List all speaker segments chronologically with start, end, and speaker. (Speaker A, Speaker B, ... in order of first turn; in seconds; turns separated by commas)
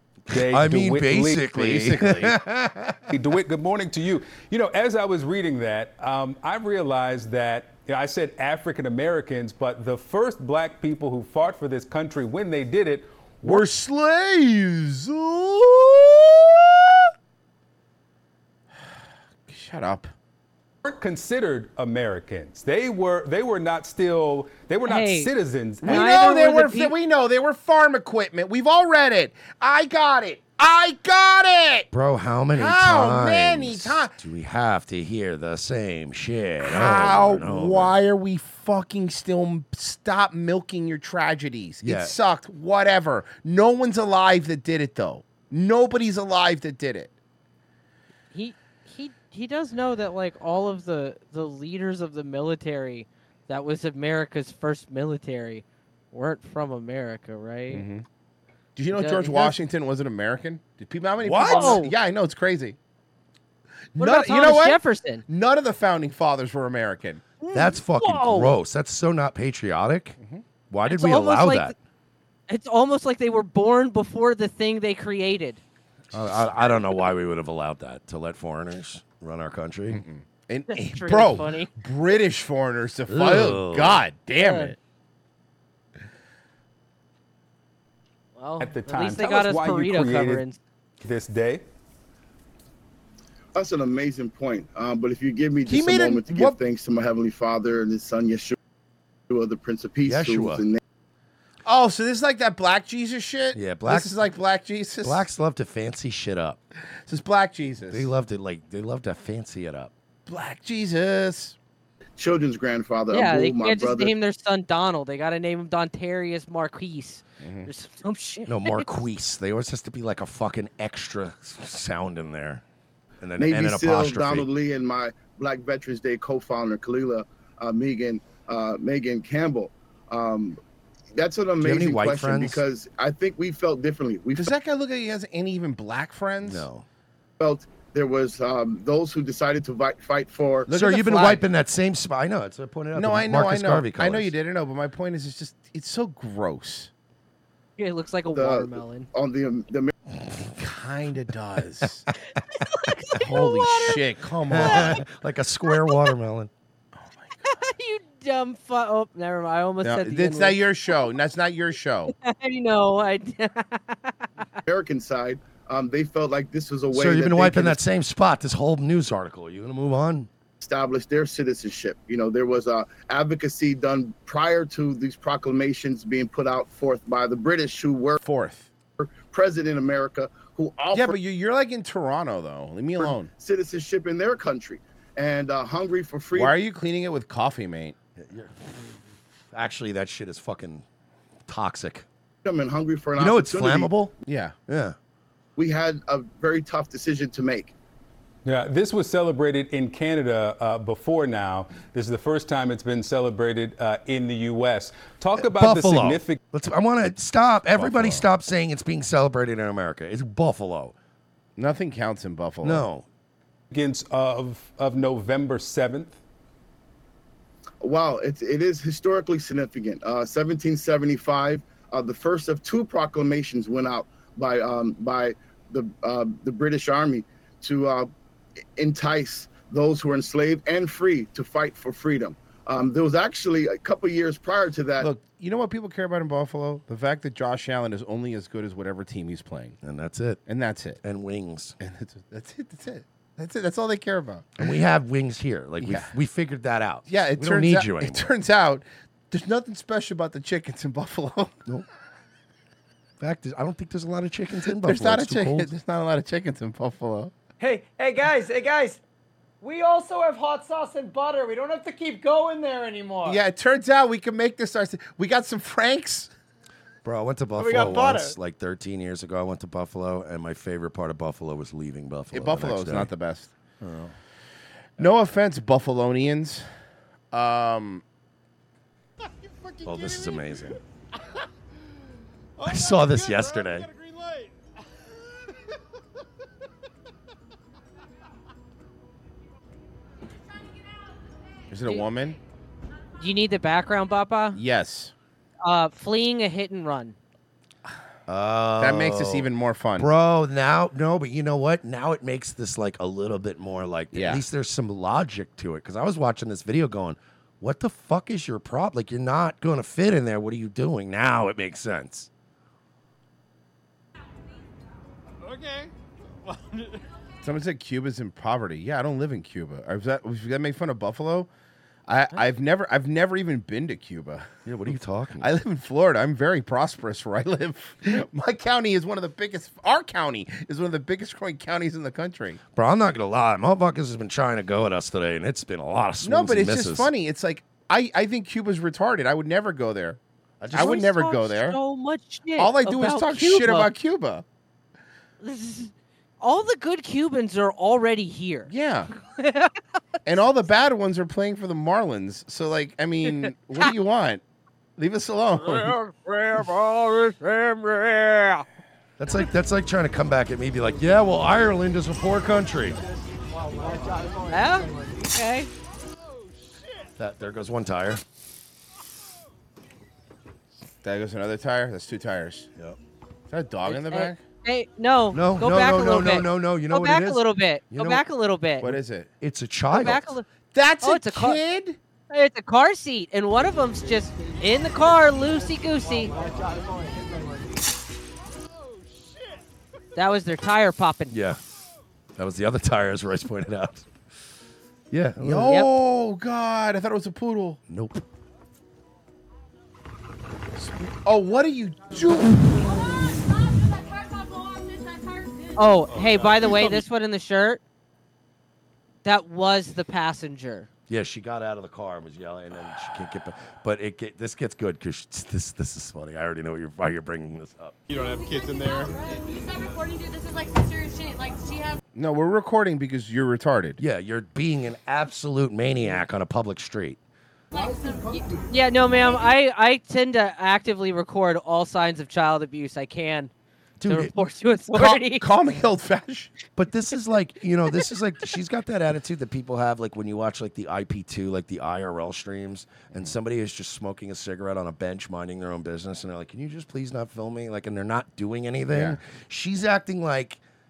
Speaker A: 0.3-3.0, Speaker B: 0.3-1.5, Speaker C: 1.5-2.4, Speaker B: 3.1-13.7, Speaker C: 13.4-17.0, Speaker C: 19.5-20.1, Speaker B: 20.8-26.0, Speaker D: 24.9-25.3, Speaker D: 25.8-26.9, Speaker C: 25.8-31.9, Speaker A: 31.9-38.0, Speaker C: 32.5-34.1, Speaker C: 36.6-47.1, Speaker A: 41.8-42.2, Speaker D: 48.3-57.9, Speaker C: 57.7-58.0, Speaker C: 58.8-62.8, Speaker D: 58.9-59.6, Speaker A: 61.2-61.8, Speaker D: 61.4-61.9, Speaker C: 64.0-67.2, Speaker D: 64.0-65.2, Speaker D: 67.4-68.5, Speaker A: 67.5-70.2, Speaker A: 70.7-71.8, Speaker D: 70.9-71.7, Speaker D: 72.5-75.6, Speaker A: 76.1-80.0, Speaker C: 79.9-84.8, Speaker D: 80.7-81.7, Speaker A: 83.1-84.0, Speaker D: 84.4-84.7, Speaker D: 88.4-90.6, Speaker B: 88.6-90.4, Speaker B: 91.0-91.6, Speaker E: 93.5-98.6, Speaker C: 95.7-96.6, Speaker A: 95.7-96.4, Speaker E: 99.3-100.8, Speaker A: 100.0-100.6, Speaker C: 101.7-105.2, Speaker A: 103.5-104.2, Speaker A: 105.0-106.6, Speaker C: 107.1-108.1, Speaker A: 107.9-109.9, Speaker C: 110.3-111.6, Speaker E: 112.2-114.2, Speaker D: 113.1-119.0, Speaker C: 117.4-117.7, Speaker A: 118.5-122.6, Speaker A: 123.2-124.5, Speaker E: 123.4-130.6, Speaker E: 131.2-134.5, Speaker A: 131.6-132.6, Speaker C: 134.3-136.7, Speaker A: 136.4-136.8, Speaker E: 137.4-140.7, Speaker C: 140.7-141.4, Speaker A: 140.7-144.3, Speaker C: 142.9-146.9, Speaker D: 147.8-149.1, Speaker E: 148.3-149.9, Speaker C: 150.6-152.1, Speaker D: 152.7-154.9, Speaker C: 153.2-155.0, Speaker A: 154.5-156.5, Speaker D: 157.5-160.6, Speaker C: 159.8-162.1, Speaker D: 162.2-164.4, Speaker E: 164.7-167.8, Speaker A: 166.9-170.3, Speaker E: 170.6-178.2, Speaker C: 178.2-178.7, Speaker E: 179.0-181.2, Speaker C: 180.9-183.3, Speaker E: 183.0-186.6, Speaker C: 186.3-187.9, Speaker A: 188.2-189.0, Speaker A: 189.5-190.8, Speaker A: 191.5-192.1, Speaker E: 192.4-193.9, Speaker A: 193.2-194.1, Speaker C: 194.2-194.5, Speaker A: 194.7-195.0, Speaker E: 195.6-197.7, Speaker B: 198.5-206.4, Speaker A: 205.4-210.9, Speaker C: 207.8-208.2, Speaker C: 211.6-212.8, Speaker A: 212.6-213.1, Speaker B: 213.7-216.2, Speaker E: 217.8-228.1, Speaker E: 228.8-235.1, Speaker C: 235.0-239.8, Speaker A: 239.8-240.4, Speaker C: 240.5-241.0, Speaker A: 241.0-241.8, Speaker C: 241.8-244.7, Speaker A: 244.6-248.3, Speaker C: 245.8-246.1, Speaker C: 247.1-251.6, Speaker A: 253.2-255.7, Speaker C: 254.8-257.3, Speaker F: 257.7-258.8, Speaker F: 259.7-260.1, Speaker F: 261.4-263.3, Speaker C: 263.2-266.3, Speaker A: 267.0-273.1, Speaker C: 272.3-273.5, Speaker A: 273.8-274.1, Speaker C: 275.0-276.6, Speaker C: 277.3-278.0, Speaker A: 279.8-280.8, Speaker A: 282.6-283.9, Speaker G: 282.7-284.4, Speaker C: 291.7-292.4, Speaker D: 293.2-294.6, Speaker C: 294.5-295.1, Speaker D: 295.6-297.2, Speaker A: 298.3-312.3, Speaker C: 298.8-300.1, Speaker C: 304.1-304.4, Speaker G: 315.5-315.9, Speaker C: 317.4-321.5, Speaker C: 322.1-324.5, Speaker A: 324.7-325.5, Speaker C: 325.4-332.6, Speaker A: 332.7-337.1, Speaker C: 336.2-340.2, Speaker A: 340.6-341.1, Speaker C: 340.7-341.8, Speaker D: 340.7-343.9, Speaker C: 342.6-344.4, Speaker D: 345.4-348.7, Speaker C: 348.7-349.1, Speaker D: 349.4-349.7, Speaker C: 350.3-354.4, Speaker C: 355.0-355.9, Speaker D: 357.1-358.3, Speaker A: 359.2-363.0, Speaker D: 364.5-365.7, Speaker A: 367.2-368.2, Speaker C: 371.0-372.7, Speaker C: 373.5-374.4, Speaker D: 373.9-379.0, Speaker A: 375.3-378.2, Speaker C: 378.8-379.3, Speaker A: 379.4-380.4, Speaker D: 379.9-380.5, Speaker C: 380.7-382.0, Speaker D: 381.0-381.6, Speaker D: 382.3-386.3, Speaker D: 390.1-391.4, Speaker A: 391.3-391.6, Speaker A: 392.4-394.1, Speaker A: 395.1-395.9, Speaker C: 395.4-397.8, Speaker A: 397.9-398.2, Speaker C: 400.8-403.0, Speaker H: 403.9-405.9, Speaker D: 405.8-407.8, Speaker D: 409.2-410.9, Speaker A: 411.1-418.0, Speaker G: 418.1-419.1, Speaker H: 418.2-422.0, Speaker C: 422.1-424.0, Speaker A: 424.0-427.2, Speaker H: 427.7-428.6, Speaker D: 428.7-433.5, Speaker A: 434.0-434.3, Speaker D: 434.1-435.5, Speaker C: 434.9-436.5, Speaker A: 436.8-450.6, Speaker C: 448.9-449.2